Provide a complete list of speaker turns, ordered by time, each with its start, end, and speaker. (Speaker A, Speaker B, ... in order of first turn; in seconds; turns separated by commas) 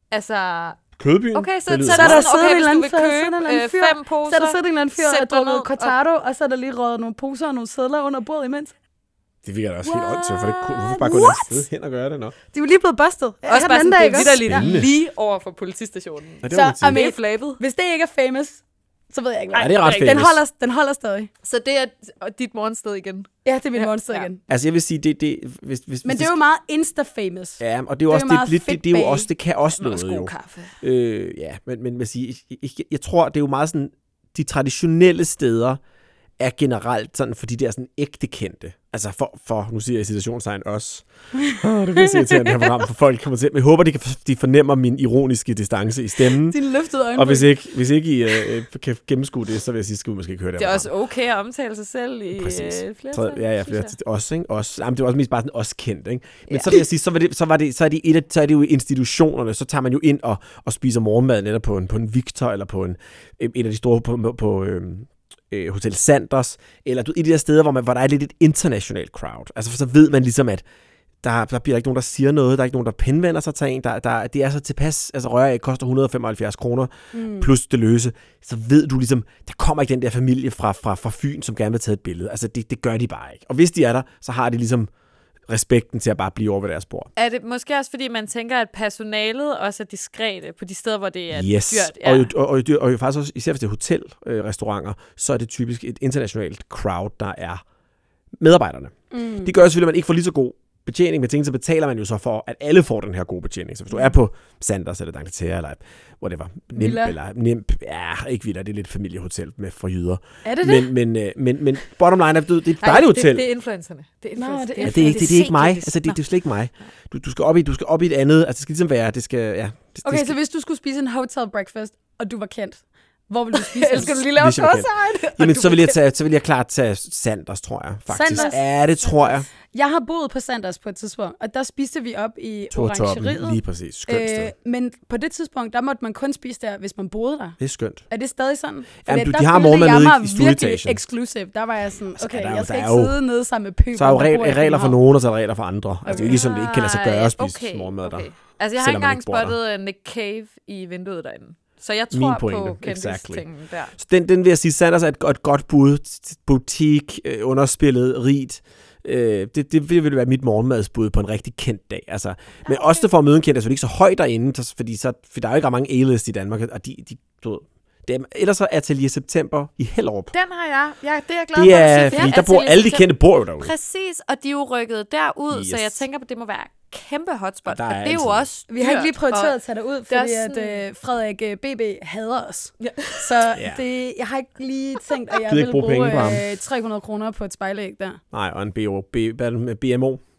Speaker A: 0.1-0.8, Speaker B: 1.0-2.2, Speaker A: 1.3-6.0, Speaker C: 1.9-8.7, Speaker B: 9.4-12.3, Speaker A: 9.8-11.3, Speaker C: 12.5-14.7, Speaker A: 13.4-17.6, Speaker B: 14.3-14.9, Speaker B: 16.4-17.0, Speaker C: 16.5-21.3, Speaker A: 19.5-20.3, Speaker B: 19.6-20.4, Speaker A: 21.4-24.3, Speaker C: 23.4-24.4, Speaker B: 24.5-26.4, Speaker C: 26.0-29.3, Speaker B: 27.6-30.3, Speaker A: 29.8-30.7, Speaker B: 30.8-35.8, Speaker B: 36.4-46.6, Speaker C: 46.3-47.5, Speaker B: 47.1-50.9, Speaker A: 50.6-53.9, Speaker B: 52.4-70.6, Speaker A: 56.5-56.8, Speaker B: 71.2-84.9, Speaker C: 77.1-77.5, Speaker B: 85.5-87.1, Speaker A: 87.2-92.3, Speaker B: 91.3-97.6, Speaker B: 98.4-113.5, Speaker C: 99.1-99.5, Speaker C: 106.8-107.2, Speaker C: 110.4-110.9, Speaker A: 112.8-116.2, Speaker C: 114.4-115.5, Speaker B: 114.8-120.4, Speaker C: 120.0-124.2, Speaker A: 123.5-126.0, Speaker B: 124.0-129.5, Speaker C: 128.1-128.6, Speaker C: 129.7-137.6, Speaker B: 132.7-134.5, Speaker B: 137.6-138.0, Speaker C: 138.1-145.0, Speaker B: 139.1-141.0, Speaker B: 142.2-143.2, Speaker B: 143.9-149.6, Speaker C: 146.1-146.3, Speaker A: 146.2-153.9, Speaker B: 152.1-153.4, Speaker B: 154.0-170.3, Speaker A: 162.7-163.0, Speaker A: 170.3-179.6, Speaker B: 171.5-173.7, Speaker B: 175.5-176.0, Speaker B: 177.7-178.5, Speaker C: 178.7-188.2, Speaker A: 180.1-180.8, Speaker A: 182.8-183.3, Speaker B: 183.6-183.8, Speaker B: 185.4-186.4, Speaker B: 188.3-190.2